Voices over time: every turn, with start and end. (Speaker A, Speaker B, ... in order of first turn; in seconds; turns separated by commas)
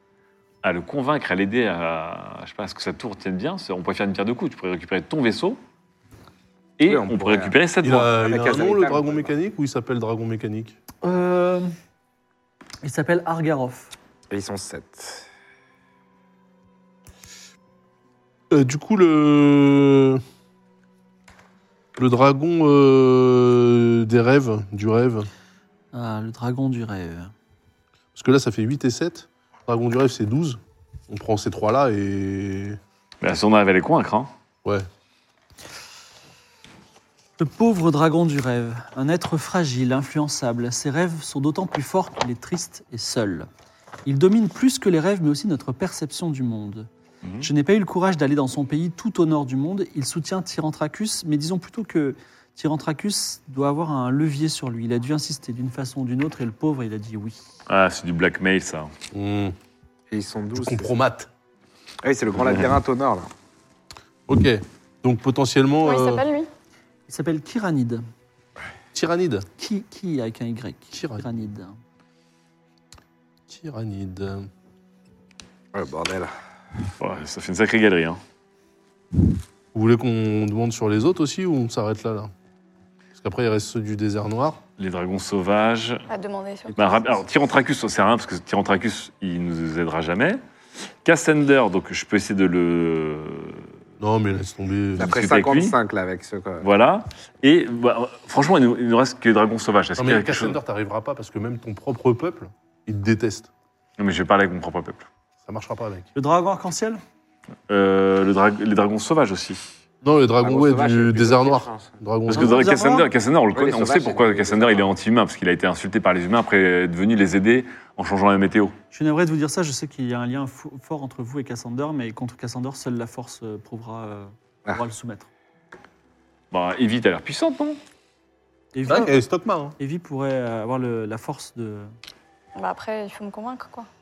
Speaker A: 0.6-5.6, Speaker A: 6.8-8.1, Speaker B: 6.8-7.5, Speaker C: 7.8-10.8, Speaker B: 8.1-9.3, Speaker D: 11.0-11.7, Speaker D: 12.8-13.9, Speaker B: 14.3-15.3, Speaker C: 18.5-20.2, Speaker C: 21.9-25.3, Speaker D: 25.9-27.3, Speaker C: 28.1-32.8, Speaker A: 33.2-34.3, Speaker D: 37.4-43.5, Speaker D: 44.0-46.9, Speaker D: 47.4-57.4, Speaker A: 57.7-58.9, Speaker C: 59.1-59.5, Speaker B: 60.1-60.9, Speaker C: 60.5-61.3, Speaker B: 62.0-63.3, Speaker C: 64.3-66.2, Speaker E: 65.8-66.5, Speaker D: 67.1-68.0, Speaker C: 68.9-69.5, Speaker D: 69.6-71.8, Speaker C: 70.9-71.3, Speaker C: 73.5-74.5, Speaker B: 75.7-76.3, Speaker A: 77.0-78.2, Speaker C: 79.7-82.3, Speaker C: 83.1-84.6, Speaker A: 84.8-86.0, Speaker E: 86.1-87.1, Speaker A: 86.8-90.4, Speaker A: 91.0-93.7, Speaker C: 94.0-95.1, Speaker B: 95.0-96.7, Speaker A: 95.0-95.7, Speaker A: 96.6-100.6, Speaker C: 100.0-103.5, Speaker A: 104.0-105.0, Speaker C: 105.4-106.1, Speaker D: 106.1-107.0, Speaker A: 107.7-109.6, Speaker C: 110.0-112.6, Speaker B: 110.4-111.9, Speaker A: 112.3-118.7, Speaker D: 112.3-113.1, Speaker B: 113.5-114.9, Speaker D: 118.9-125.3, Speaker A: 126.5-127.8, Speaker D: 128.7-129.1, Speaker C: 128.8-129.8, Speaker D: 129.8-131.9, Speaker E: 132.6-133.9